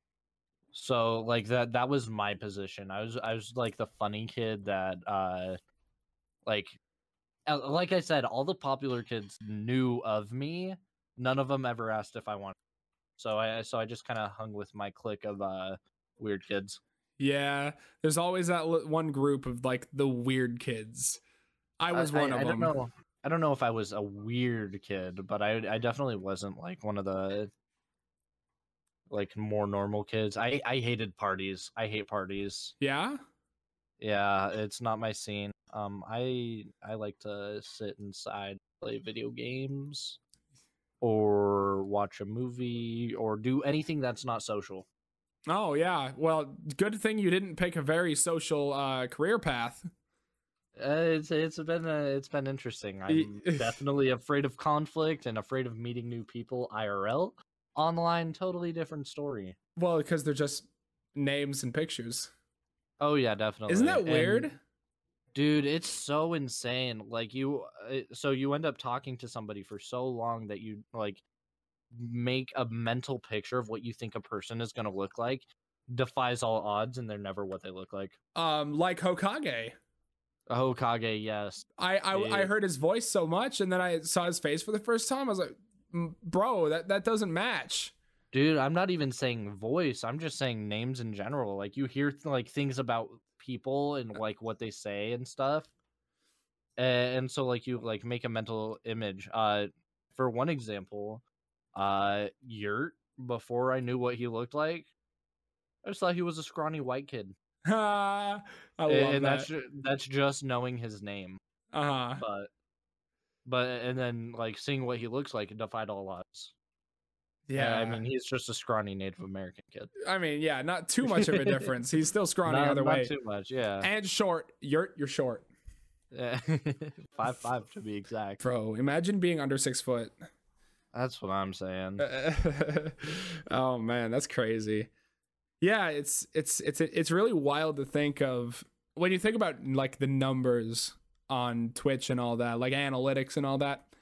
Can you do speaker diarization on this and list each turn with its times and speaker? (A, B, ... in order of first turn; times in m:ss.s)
0:00.7-0:05.6 A
0:06.4-0:06.8 A
0:07.4-0:12.6 A
0:13.2-0:16.8 A
0:17.2-0:21.2 B
0:21.8-0:22.7 B
0:21.9-0:27.5 A
0:29.1-0:32.7 A
0:32.8-0:33.2 B
0:34.0-0:40.2 A
0:41.0-0:44.8 A
0:45.5-0:49.9 B
0:50.8-0:59.6 A
0:53.1-0:53.8 B
0:59.8-1:02.3 B
1:03.0-1:04.5 A
1:03.7-1:04.6 B
1:05.3-1:11.2 A
1:11.9-1:18.2 A
1:18.4-1:19.7 B
1:20.5-1:22.5 A
1:21.8-1:27.9 B
1:28.3-1:35.7 A
1:36.8-1:41.2 A
1:41.7-1:44.9 A
1:45.8-1:47.3 A
1:47.6-1:49.5 B
1:48.9-1:51.4 A
1:51.7-1:52.2 B
1:52.2-1:52.5 A
1:53.4-1:56.5 A
1:57.5-1:58.0 B
1:57.5-1:59.9 A
2:00.0-2:03.1 B
2:01.0-2:01.7 A
2:02.4-2:03.9 A
2:03.8-2:05.5 B
2:06.1-2:08.4 A
2:08.4-2:10.1 B
2:10.9-2:12.0 A
2:12.0-2:14.9 B
2:15.6-2:23.9 B